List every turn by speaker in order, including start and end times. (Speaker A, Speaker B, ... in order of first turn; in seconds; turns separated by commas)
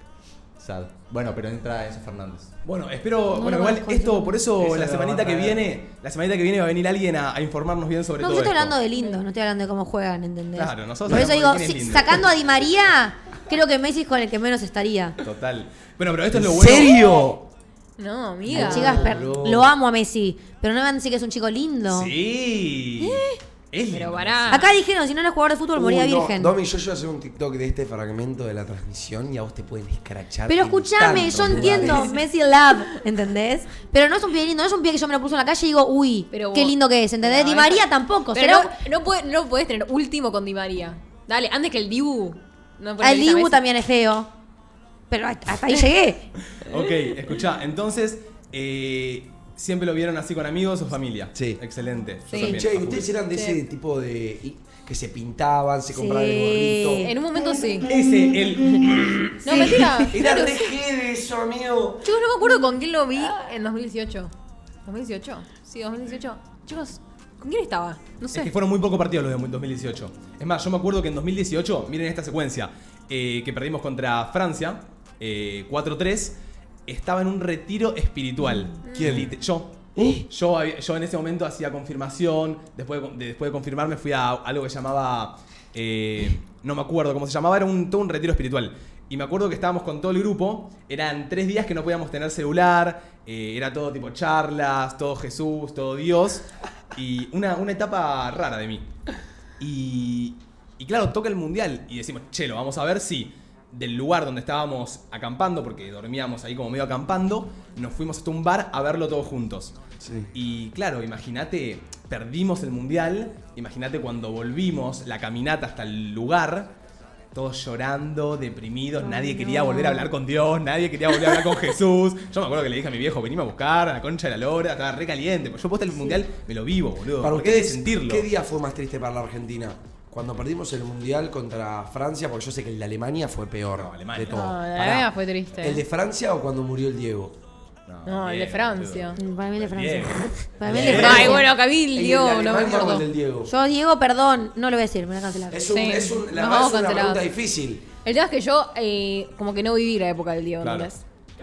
Speaker A: 0.6-2.5, Speaker B: 2.6-8.8, Speaker C: 3.3-4.4, Speaker A: 4.6-5.6, Speaker C: 8.2-15.2, Speaker D: 8.9-9.2, Speaker B: 10.6-12.2, Speaker B: 15.2-17.2, Speaker E: 16.3-17.5, Speaker D: 18.0-19.3, Speaker E: 18.5-19.7, Speaker C: 18.5-22.1, Speaker B: 21.9-24.7, Speaker D: 23.9-24.8, Speaker C: 24.5-26.5, Speaker E: 25.8-32.1, Speaker C: 30.5-38.8, Speaker D: 31.6-32.2, Speaker D: 36.3-43.6, Speaker C: 43.0-44.3, Speaker C: 45.1-46.3, Speaker B: 46.5-53.1, Speaker E: 51.4-51.6, Speaker E: 52.3-57.2, Speaker D: 53.3-53.6, Speaker C: 56.0-57.9, Speaker D: 57.0-57.9, Speaker E: 57.8-62.2, Speaker B: 57.9-60.5, Speaker D: 59.4-60.5, Speaker D: 62.0-64.3, Speaker D: 64.8-68.5, Speaker B: 68.3-76.4, Speaker B: 76.9-98.9, Speaker E: 78.9-79.3, Speaker E: 80.0-80.2, Speaker B: 99.6-109.8, Speaker E: 110.0-110.3, Speaker B: 110.3-116.7, Speaker B: 117.3-128.3, Speaker C: 119.0-120.1, Speaker E: 127.2-137.4, Speaker B: 133.8-134.5, Speaker D: 134.3-135.8, Speaker B: 137.9-141.4, Speaker D: 138.1-139.2, Speaker C: 139.2-141.5, Speaker E: 140.7-143.5, Speaker D: 140.7-143.1, Speaker C: 143.5-145.7, Speaker E: 145.5-147.9, Speaker D: 145.7-147.2, Speaker D: 148.1-151.0, Speaker B: 150.6-150.9